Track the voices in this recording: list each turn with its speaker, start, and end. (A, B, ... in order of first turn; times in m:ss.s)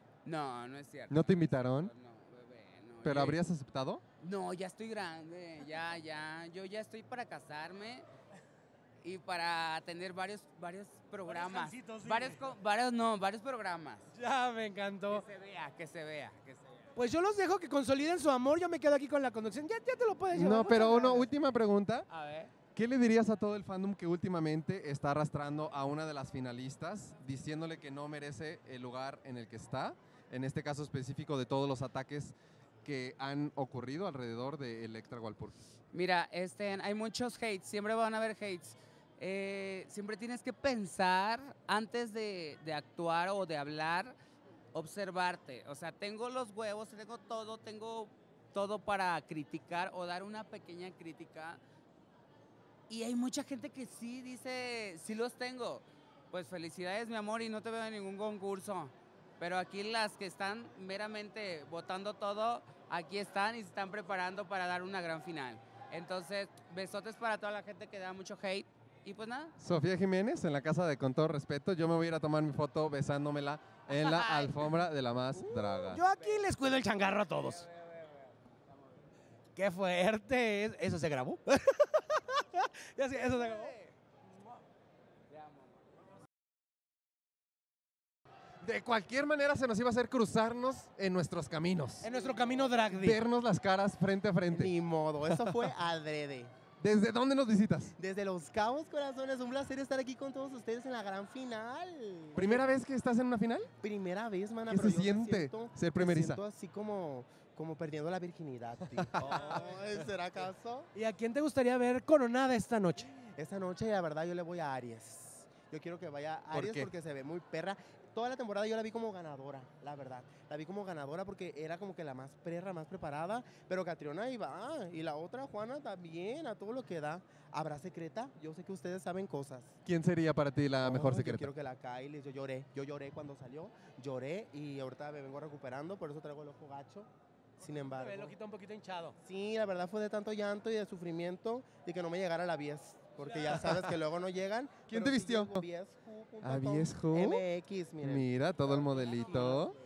0:00.2-0:03.4 A
0:01.1-0:01.9 B
0:03.0-0:04.0 B
0:04.2-0:08.0 A
0:09.0-0:14.0 A
0:11.3-0:12.4 C
0:14.1-0:15.2 C
0:15.1-0:16.8 A
0:17.0-0:21.3 C
0:20.3-0:22.1 B
0:22.1-0:22.5 A
0:22.8-0:35.6 B
0:35.9-0:44.2 A
0:44.7-0:51.6 A
0:52.9-1:09.5 A
1:09.6-1:16.0 B
1:14.0-1:14.5 A
1:15.4-1:17.6 C
1:19.6-1:23.7 C
1:28.6-1:32.1 B
1:32.0-1:33.2 C
1:32.9-1:34.7 B
1:34.5-1:36.5 D
1:36.8-1:38.0 B
1:38.0-1:42.7 D
1:42.4-1:43.7 B
1:43.8-1:50.9 D
1:44.7-1:46.4 B
1:49.0-1:49.5 B
1:50.9-1:53.1 C
1:53.2-2:09.8 D
1:56.5-1:56.9 B
2:09.8-2:11.5 B
2:10.8-2:18.4 D
2:17.6-2:19.2 C
2:19.2-2:29.7 D
2:24.9-2:25.6 B
2:26.4-2:27.4 B
2:28.0-2:29.7 B